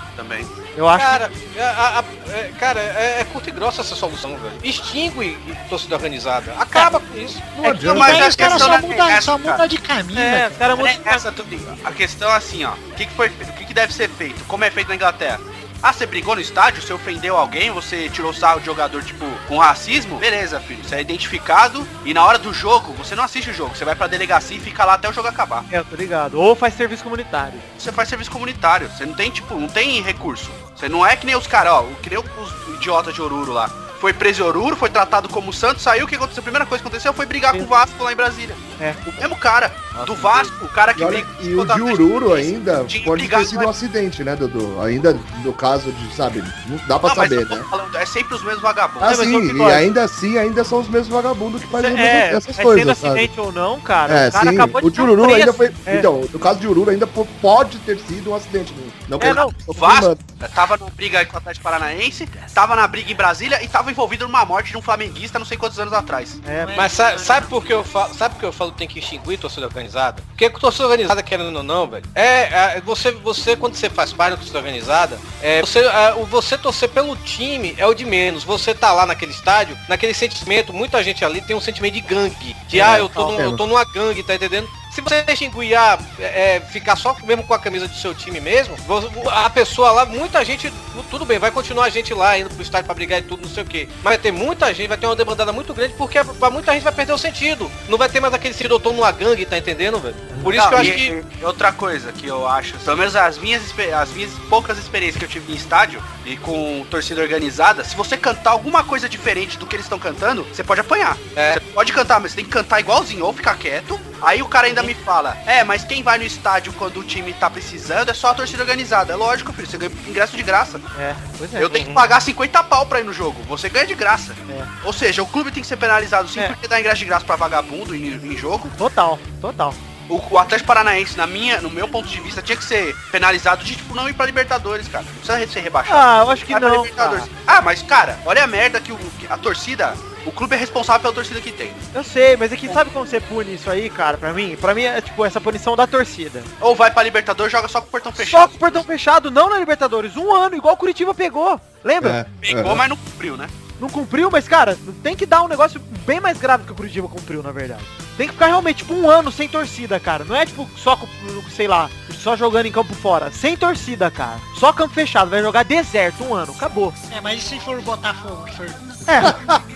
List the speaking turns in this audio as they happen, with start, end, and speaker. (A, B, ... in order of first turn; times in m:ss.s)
0:00.2-0:00.5 A
0:00.8-0:01.3 B
0:00.9-0:07.4 C
0:06.7-0:07.0 B
0:07.6-0:08.8 D
0:07.6-0:10.6 E
0:07.8-0:09.6 A
0:10.1-0:11.2 B
0:10.8-0:25.7 A
0:25.7-0:27.6 B
0:27.8-0:43.7 A
0:38.8-0:39.1 B
0:40.0-0:40.4 C
0:41.0-0:47.7 D
0:47.0-0:49.2 A
0:49.0-0:53.3 D
0:49.0-0:49.8 B
0:51.7-0:56.1 B
0:54.1-1:00.2 D
0:59.2-0:59.6 B
0:59.2-1:06.4 A
1:06.4-1:06.9 B
1:06.5-1:07.9 E
1:06.8-1:41.1 C
1:22.7-1:23.6 D
1:40.4-2:00.8 A
1:51.4-1:51.6 C
2:01.0-2:02.0 B
2:01.6-2:08.8 A
2:08.8-2:09.8 B
2:10.1-2:21.9 A
2:15.9-2:17.3 B
2:21.9-2:26.5 B
2:26.6-2:28.8 A
2:28.2-2:32.2 B
2:32.0-2:32.8 D
2:32.4-2:33.5 A
2:33.8-2:47.0 B
2:47.1-2:49.2 E
2:49.1-2:49.4 B
2:49.2-2:49.6 D